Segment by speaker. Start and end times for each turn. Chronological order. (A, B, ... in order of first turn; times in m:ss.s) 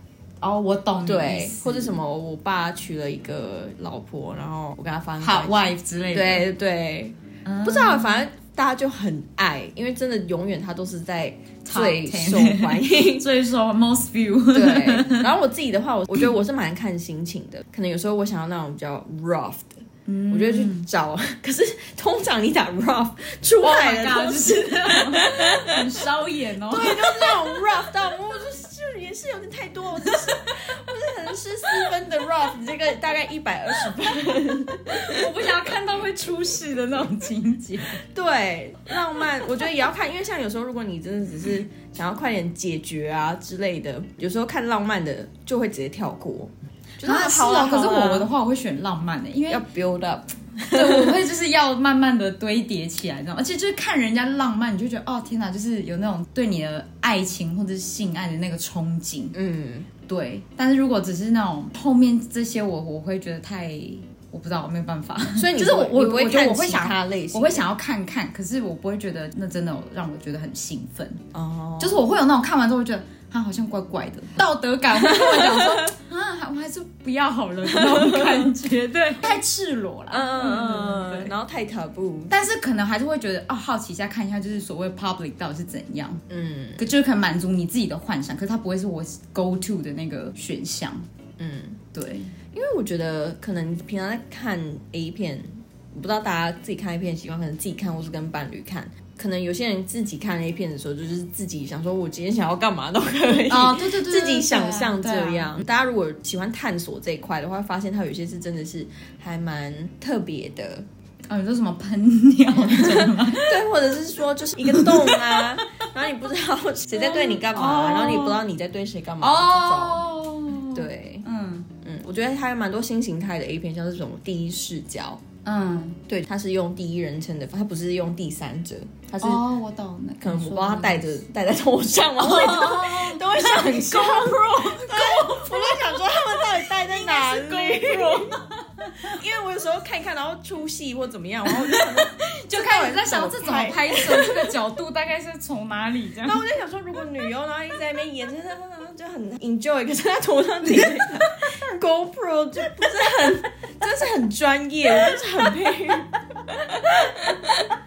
0:00.4-0:02.0 A
0:01.0-0:13.3 B
0:05.2-0:06.5 A
0:07.4-0:08.2 A
0:11.6-0:15.3 A
0:14.5-0:25.9 B
0:20.1-0:20.9 A
0:23.6-0:27.6 A
0:26.7-0:35.7 B
0:34.9-0:38.0 A
0:38.0-0:48.3 B
0:47.0-0:49.6 A
0:49.5-0:51.2 B
0:50.7-0:59.4 A
0:59.3-0:59.9 B
1:00.1-1:11.2 A
1:05.4-1:07.6 B
1:11.3-1:12.1 B
1:11.8-1:21.3 A
1:15.0-1:15.9 B
1:17.7-1:18.5 B
1:20.1-1:22.4 B
1:22.3-1:26.2 A
1:26.3-1:26.9 B
1:26.8-1:31.1 A
1:31.4-1:31.8 B
1:31.9-1:32.3 A
1:32.5-1:50.9 B
1:43.5-1:45.6 A
1:51.3-1:53.6 A
1:52.6-2:00.0 B
1:54.6-1:55.5 A
1:56.9-1:58.4 A
1:59.2-2:01.7 A
2:00.7-2:01.3 B
2:01.8-2:05.2 B
2:05.4-2:06.0 A
2:06.1-2:09.4 B
2:09.2-2:11.2 A
2:10.2-2:18.4 B
2:12.2-2:19.2 A
2:19.0-2:24.6 B
2:21.5-2:26.4 A
2:26.2-2:37.6 B
2:35.0-2:35.5 A
2:36.7-2:37.7 A